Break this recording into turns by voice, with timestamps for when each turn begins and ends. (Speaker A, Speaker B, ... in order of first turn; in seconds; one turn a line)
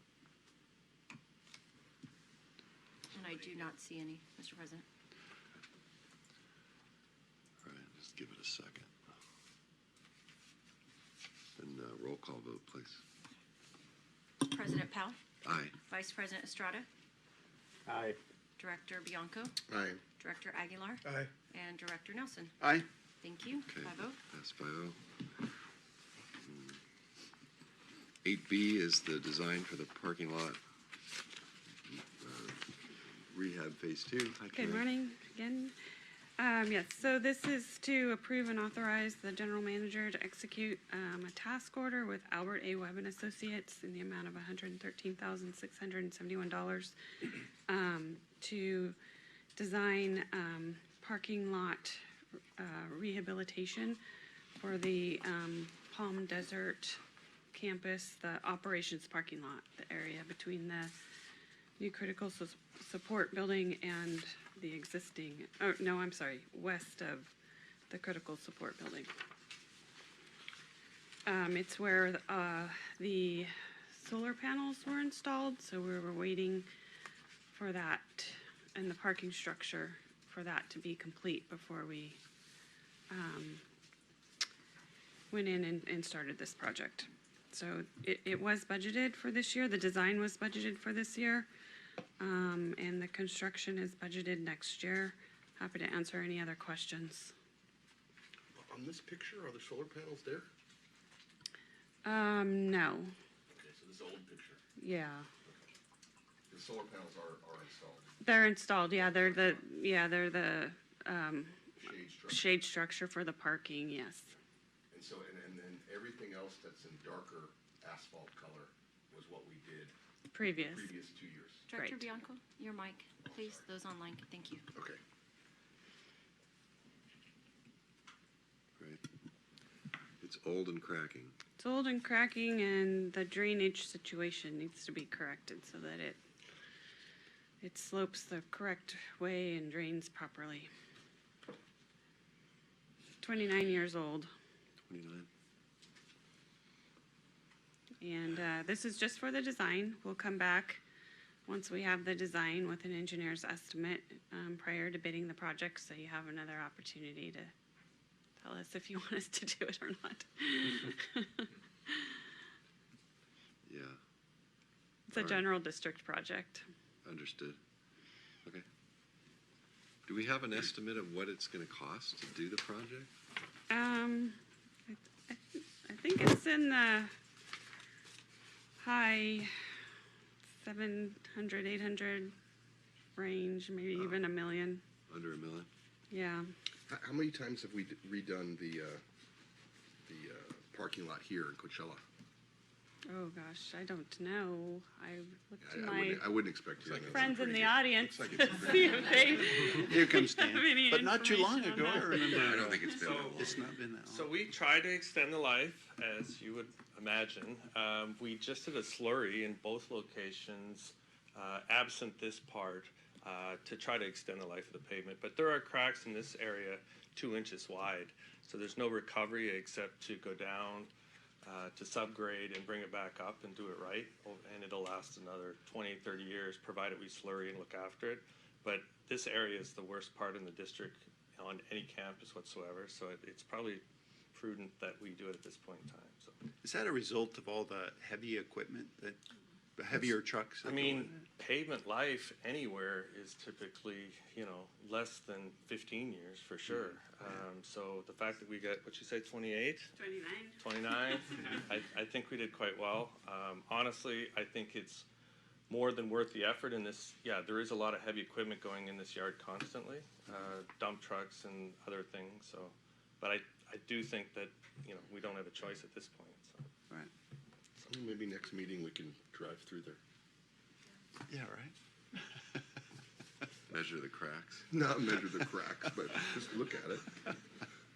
Speaker A: 3.1-4.8
Speaker B: 7.6-8.9
Speaker B: 11.6-13.0
Speaker A: 14.4-15.2
Speaker B: 15.4-15.8
Speaker A: 15.8-16.9
Speaker C: 17.9-18.2
Speaker A: 18.6-19.6
Speaker D: 19.7-20.0
Speaker A: 20.2-22.5
Speaker C: 22.6-22.9
Speaker A: 23.2-24.2
Speaker B: 23.7-25.0
Speaker B: 26.4-26.8
Speaker B: 28.2-30.6
Speaker B: 31.9-34.9
Speaker E: 34.5-35.8
Speaker E: 36.4-49.0
Speaker E: 49.6-52.0
Speaker E: 52.6-54.0
Speaker E: 54.6-57.0
Speaker E: 57.5-60.9
Speaker E: 61.8-67.3
Speaker E: 67.9-69.1
Speaker E: 71.3-76.7
Speaker E: 77.5-82.2
Speaker E: 83.1-83.6
Speaker E: 85.3-91.5
Speaker E: 92.2-97.3
Speaker D: 98.5-100.5
Speaker E: 102.0-103.1
Speaker D: 103.5-104.6
Speaker E: 104.8-105.3
Speaker D: 106.5-108.2
Speaker E: 108.2-111.6
Speaker D: 108.9-109.6
Speaker D: 111.8-112.4
Speaker E: 112.3-114.3
Speaker D: 114.9-119.9
Speaker E: 120.3-120.9
Speaker D: 120.6-121.7
Speaker A: 121.7-124.7
Speaker E: 121.7-122.0
Speaker D: 123.2-123.7
Speaker D: 124.7-125.0
Speaker B: 130.2-131.3
Speaker E: 131.6-136.2
Speaker E: 137.6-140.7
Speaker E: 143.2-144.3
Speaker B: 144.8-145.3
Speaker E: 148.0-150.8
Speaker E: 151.5-157.5
Speaker E: 158.4-162.1
Speaker B: 163.7-164.0
Speaker E: 165.1-166.7
Speaker B: 165.1-165.4
Speaker B: 167.0-167.6
Speaker B: 170.1-173.1
Speaker E: 173.7-177.1
Speaker E: 178.8-179.5
Speaker E: 180.6-182.3
Speaker E: 183.2-184.8
Speaker B: 185.1-185.7
Speaker E: 186.1-186.5
Speaker D: 186.9-189.0
Speaker D: 190.1-192.0
Speaker E: 193.1-196.4
Speaker D: 195.6-199.5
Speaker B: 196.8-197.2
Speaker E: 197.1-202.6
Speaker C: 199.7-204.3
Speaker B: 202.2-203.6
Speaker F: 202.3-220.9
Speaker F: 221.4-236.3
Speaker C: 236.6-239.2
Speaker C: 239.8-241.2
Speaker F: 240.6-249.9
Speaker E: 250.0-250.6
Speaker F: 250.6-255.1
Speaker F: 255.7-266.6
Speaker D: 267.8-270.0
Speaker C: 271.3-272.2
Speaker B: 273.7-274.7
Speaker D: 274.7-277.2